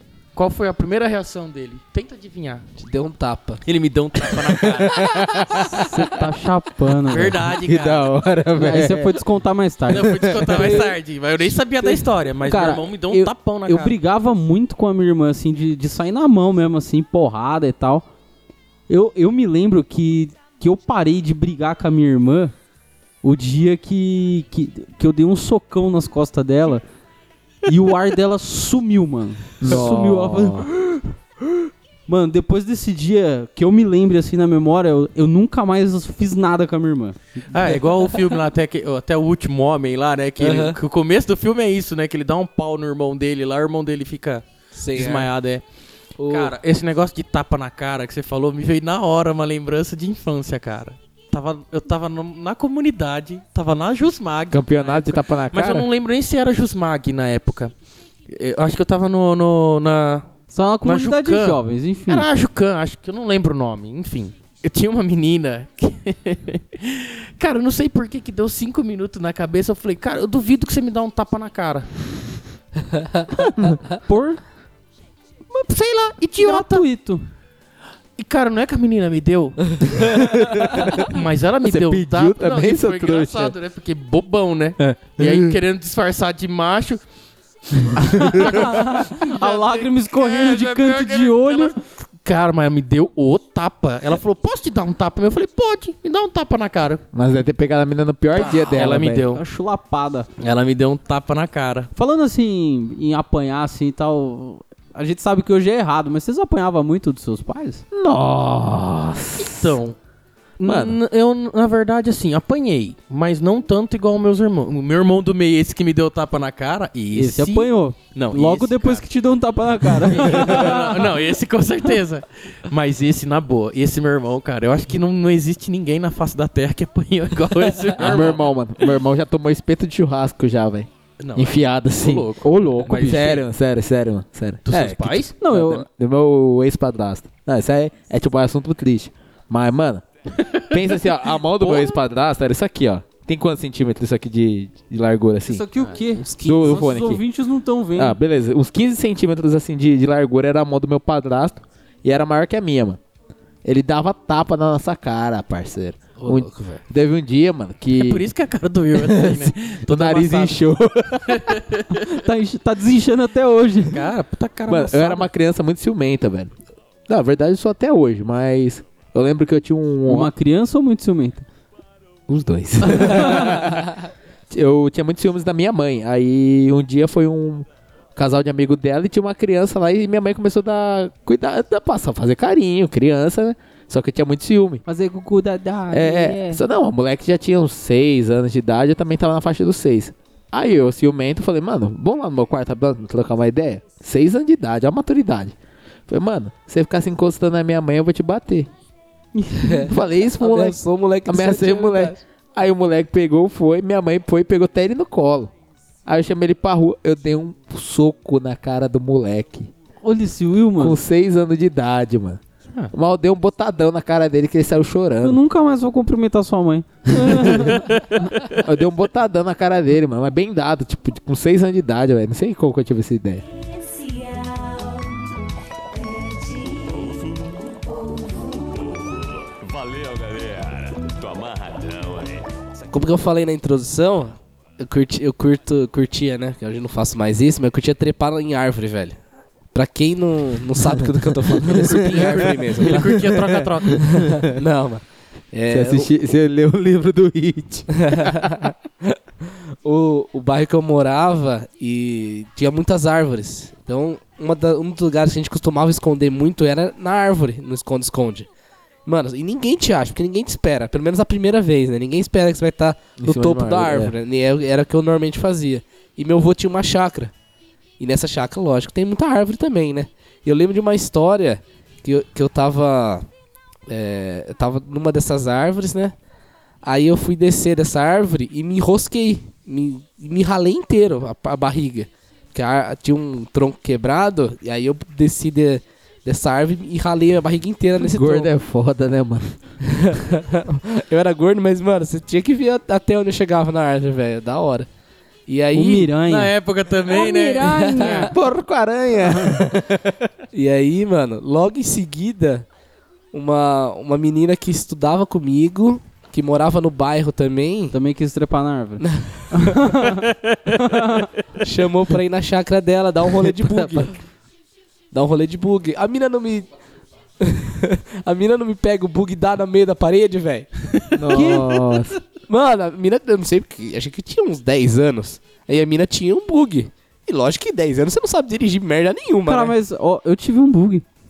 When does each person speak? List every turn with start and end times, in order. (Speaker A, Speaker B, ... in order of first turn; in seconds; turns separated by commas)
Speaker A: 0.3-2.6, Speaker B: 2.8-3.6, Speaker A: 3.6-5.6, Speaker C: 4.6-6.2, Speaker D: 5.8-7.4, Speaker A: 7.1-8.1, Speaker C: 7.4-9.2, Speaker D: 8.6-10.7, Speaker A: 9.9-14.0, Speaker C: 9.9-10.5, Speaker B: 10.5-10.9, Speaker D: 12.4-18.1, Speaker D: 18.9-22.5, Speaker D: 23.2-26.8, Speaker D: 27.6-30.7, Speaker C: 29.6-30.7, Speaker D: 32.1-37.8, Speaker A: 37.5-45.6, Speaker B: 40.4-40.8, Speaker B: 44.7-45.3, Speaker B: 46.2-46.5, Speaker A: 46.2-57.7, Speaker C: 54.5-55.9, Speaker A: 58.3-71.9, Speaker D: 60.5-62.2, Speaker D: 74.0-74.4, Speaker A: 75.5-76.8, Speaker D: 76.4-77.2, Speaker A: 78.2-80.2, Speaker C: 80.0-83.5, Speaker A: 80.8-87.0, Speaker C: 84.9-85.6, Speaker A: 87.9-97.0, Speaker D: 88.1-91.8, Speaker C: 97.1-99.3, Speaker A: 98.3-99.4, Speaker D: 99.3-100.3, Speaker A: 100.4-101.9, Speaker D: 101.9-107.8, Speaker C: 107.9-109.8, Speaker A: 109.4-110.0, Speaker A: 110.6-119.0, Speaker C: 110.6-111.0, Speaker D: 117.1-121.0, Speaker A: 119.9-128.4, Speaker C: 128.0-140.0, Speaker A: 131.2-133.4, Speaker A: 134.6-135.3, Speaker D: 135.4-135.8, Speaker C: 140.6-145.7, Speaker A: 141.6-141.9, Speaker D: 145.4-148.2, Speaker B: 146.2-146.7, Speaker C: 146.4-147.2, Speaker C: 147.9-153.0, Speaker C: 153.6-158.2, Speaker B: 156.2-156.8, Speaker A: 157.9-160.7, Speaker C: 158.9-161.6, Speaker A: 161.3-162.1, Speaker D: 162.1-164.0, Speaker A: 163.8-165.3, Speaker C: 164.7-166.5, Speaker C: 167.1-170.3, Speaker D: 170.1-171.4, Speaker C: 172.3-184.8, Speaker D: 173.0-173.5, Speaker D: 184.8-186.6, Speaker C: 185.9-195.5, Speaker C: 196.1-198.7, Speaker D: 199.3-199.8, Speaker B: 199.6-202.2, Speaker C: 199.8-205.5, Speaker C: 206.1-209.7, Speaker D: 210.0-211.0, Speaker C: 210.8-212.4, Speaker C: 212.9-215.4, Speaker D: 215.2-218.0, Speaker C: 217.2-217.8, Speaker C: 218.5-223.4, Speaker E: 223.5-225.3, Speaker E: 225.9-232.6, Speaker B: 232.9-239.2, Speaker B: 239.7-243.2, Speaker C: 241.0-244.5, Speaker A: 242.1-244.2, Speaker B: 244.0-246.1, Speaker C: 245.7-248.7, Speaker B: 248.0-258.5, Speaker B: 259.1-267.3, Speaker C: 263.2-264.1, Speaker B: 268.0-273.2, Speaker B: 273.9-276.1, Speaker B: 276.8-288.5, Speaker C: 288.0-289.6, Speaker B: 289.9-294.9, Speaker B: 295.5-296.1, Speaker D: 295.7-296.5, Speaker A: 296.2-298.1, Speaker D: 297.1-298.3, Speaker B: 297.6-298.3, Speaker C: 298.2-300.3, Speaker B: 300.5-302.6, Speaker B: 303.3-307.9, Speaker D: 307.9-310.2, Speaker B: 309.0-309.8, Speaker A: 310.3-310.7, Speaker D: 310.8-311.3, Speaker B: 311.6-314.2, Speaker B: 315.1-316.7, Speaker B: 317.4-320.7, Speaker C: 321.1-322.1, Speaker D: 321.3-321.9, Speaker B: 322.5-329.7, Speaker D: 329.5-331.0